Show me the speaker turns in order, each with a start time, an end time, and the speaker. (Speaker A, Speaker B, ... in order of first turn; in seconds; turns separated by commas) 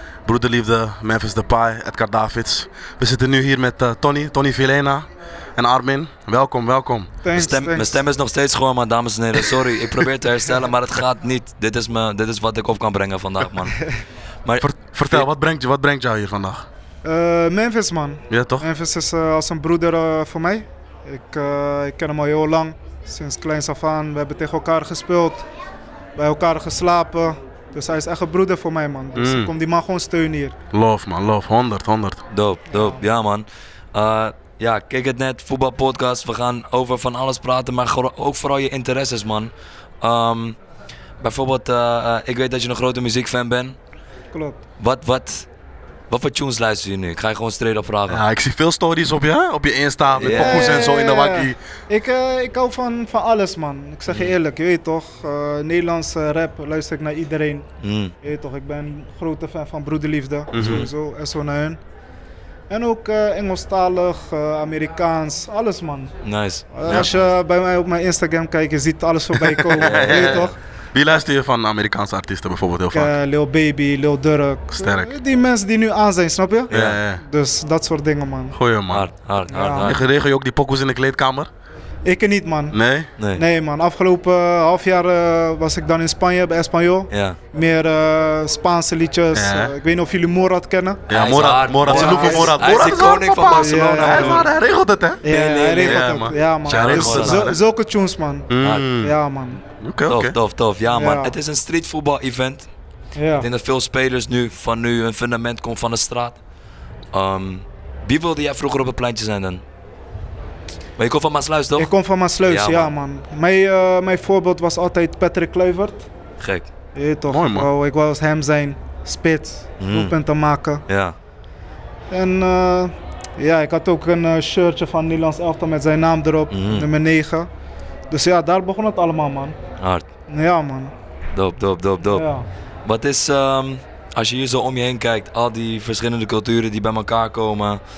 Speaker A: 0.2-7.1, Speaker B: 7.2-8.0, Speaker C: 7.3-13.9, Speaker C: 14.4-15.3, Speaker A: 14.6-16.6, Speaker B: 17.0-25.4, Speaker A: 18.3-18.7, Speaker B: 26.1-30.6, Speaker A: 29.1-29.5, Speaker A: 30.7-32.2, Speaker C: 32.3-40.5, Speaker B: 32.7-33.0, Speaker C: 41.2-43.8, Speaker B: 44.3-44.6, Speaker C: 44.8-45.5, Speaker C: 46.1-48.2, Speaker A: 48.1-51.6, Speaker C: 50.1-50.9, Speaker B: 50.3-57.7, Speaker C: 54.1-54.3, Speaker C: 57.8-58.1, Speaker B: 58.2-61.8, Speaker A: 60.5-60.9, Speaker C: 60.5-60.9, Speaker B: 62.7-66.1, Speaker C: 66.2-67.1, Speaker B: 66.7-70.5, Speaker A: 69.4-73.1, Speaker C: 69.8-70.3, Speaker B: 72.9-78.6, Speaker A: 74.8-75.2, Speaker C: 76.7-77.0, Speaker A: 76.7-77.2, Speaker A: 78.5-79.1, Speaker C: 78.9-80.0, Speaker B: 79.5-79.9, Speaker A: 79.8-81.5, Speaker B: 82.0-82.8, Speaker A: 82.7-83.1, Speaker C: 83.2-83.4, Speaker B: 83.3-91.1, Speaker C: 87.1-87.4, Speaker A: 89.3-89.7, Speaker A: 91.1-95.3, Speaker C: 91.1-94.5, Speaker B: 91.8-92.7, Speaker B: 93.5-94.5, Speaker B: 95.2-99.6, Speaker C: 95.2-97.5, Speaker A: 95.8-97.6, Speaker A: 98.5-99.1, Speaker C: 98.6-98.9, Speaker A: 99.8-100.4, Speaker C: 100.1-102.7, Speaker B: 100.9-101.3, Speaker B: 103.1-103.5, Speaker C: 103.4-106.4, Speaker C: 107.1-109.6, Speaker C: 111.0-112.9, Speaker B: 111.8-116.1, Speaker C: 116.4-116.7, Speaker B: 116.9-120.8, Speaker A: 117.3-117.7, Speaker C: 119.8-120.1, Speaker C: 120.9-121.2, Speaker B: 122.1-127.5, Speaker C: 126.5-126.9, Speaker B: 128.1-129.6, Speaker C: 129.8-130.0, Speaker B: 130.3-130.9, Speaker C: 131.3-132.2, Speaker B: 132.1-132.4, Speaker C: 132.8-137.8